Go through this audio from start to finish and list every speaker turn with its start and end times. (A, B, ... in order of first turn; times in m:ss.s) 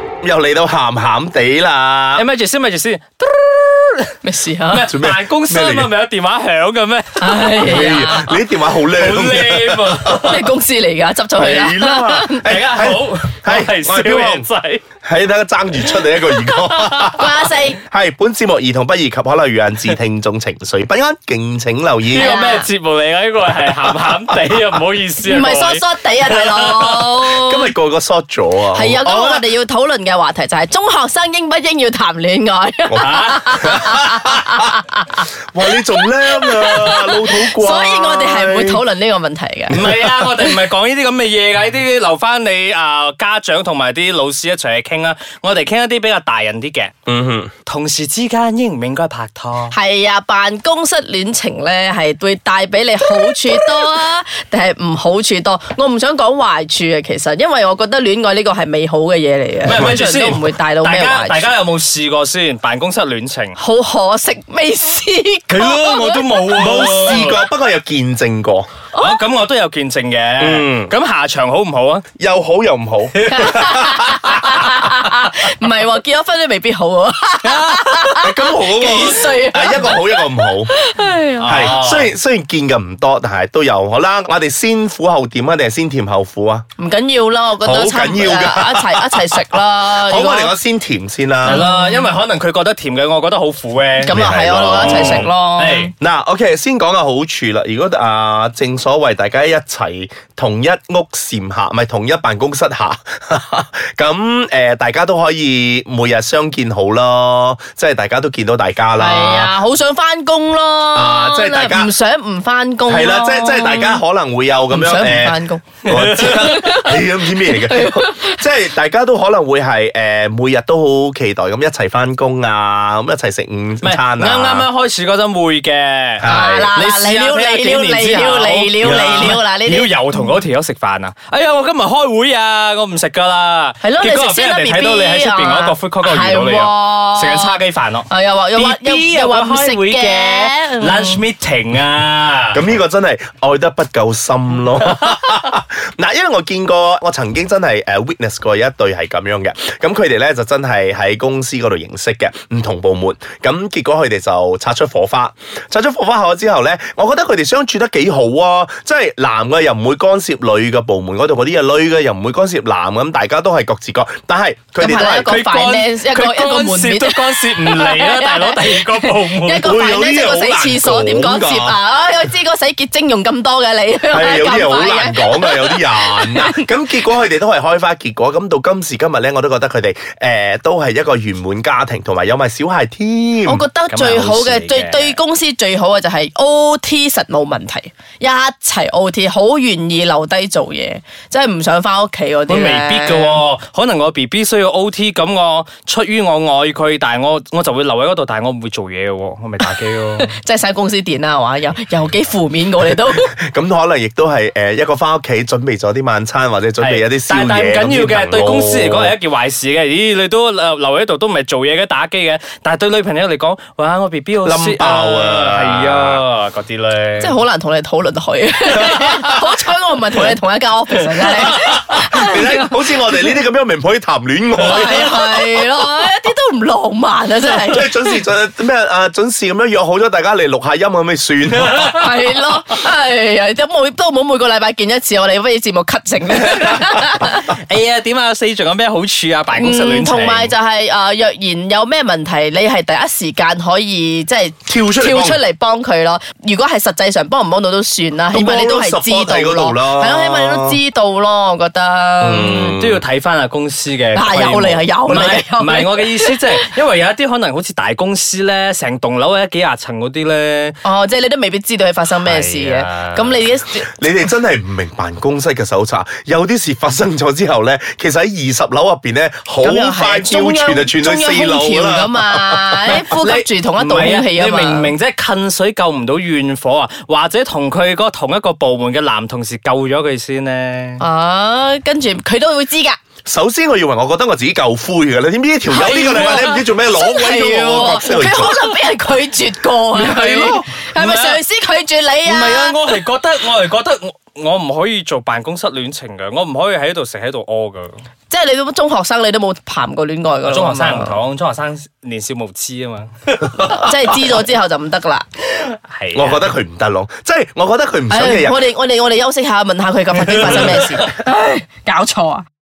0:00.2-0:02.2 A
0:02.1-0:04.1 B
0:04.2-0:04.9 C
0:04.7-0:10.5 B
0:04.9-0:05.9 A
0:07.2-0:08.3 C
0:07.6-0:10.4 A
0:10.1-0:12.5 C
0:11.3-0:14.5 A
0:12.4-0:14.8 B
0:15.0-0:22.4 A
0:15.8-0:17.2 B
0:17.1-0:17.8 C
0:22.1-0:27.1 B
0:22.1-0:22.7 C
0:23.6-0:24.6 A
0:25.2-0:27.7 C
0:27.2-0:29.5 A
0:28.7-0:39.8 C
0:32.9-0:34.7 A
0:33.0-0:33.8 B
0:35.5-0:38.8 A
0:39.7-0:46.9 B
0:39.7-0:40.4 A
0:47.1-0:47.5 A
0:47.6-0:49.7 B
0:49.7-1:01.5 C
0:59.6-1:03.6 B
1:03.6-1:06.6 C
1:05.5-1:07.4 B
1:06.5-1:08.7 A
1:08.9-1:12.1 B
1:10.4-1:10.9 A
1:12.2-1:14.8 A
1:13.2-1:14.6 B
1:13.3-1:21.7 C
1:17.4-1:18.1 B
1:18.2-1:20.7 A
1:21.4-1:22.1 B
1:21.4-1:26.6 A
1:26.8-1:30.5 C
1:27.6-1:31.6 A
1:31.4-1:34.2 B
1:31.4-1:32.1 C
1:34.0-1:35.9 C
1:34.1-1:35.3 A
1:34.7-1:35.9 B
1:36.0-1:49.6 A
1:49.0-1:54.0 C
1:50.9-1:51.9 A
1:52.9-2:04.7 A
1:54.7-1:55.6 C
1:55.8-1:56.7 B
1:56.2-1:58.4 C
2:03.8-2:22.7 B
2:06.2-2:06.7 A
2:06.2-2:10.4 C
2:08.8-2:09.4 A
2:13.8-2:21.2 C
2:22.5-2:45.3 A
2:44.8-2:56.7 C
2:44.9-2:49.7 B
2:49.6-2:51.8 A
2:54.1-3:03.6 A
3:03.4-3:13.4 C
3:03.9-3:05.2 B
3:12.5-3:20.3 B
3:19.6-3:23.3 C
3:23.1-3:29.1 A
3:26.8-3:37.4 B
3:34.4-3:36.2 A
3:37.2-3:43.3 C
3:38.9-3:39.2 A
3:41.4-3:45.7 A
3:44.6-3:48.2 C
3:47.5-3:51.9 A
3:51.9-3:57.5 C
3:56.4-4:00.5 B
3:59.5-4:12.6 C
4:04.6-4:05.4 A
4:08.3-4:10.8 A
4:12.2-4:13.0 A
4:12.5-4:20.8 B
4:14.1-4:16.6 C
4:20.8-4:24.2 C
4:22.2-4:23.4 B
4:23.9-4:33.0 A
4:29.6-4:34.9 C
4:32.9-4:41.0 B
4:41.0-4:43.0 C
4:43.2-4:48.7 A
4:45.7-4:46.6 B
4:46.1-4:52.8 C
4:50.0-4:51.4 B
4:52.2-4:58.0 B
4:58.3-5:01.2 C
5:00.4-5:03.8 B
5:03.6-5:05.3 C
5:05.6-5:06.5 B
5:06.1-5:08.7 A
5:08.1-5:12.4 C
5:10.2-5:10.7 A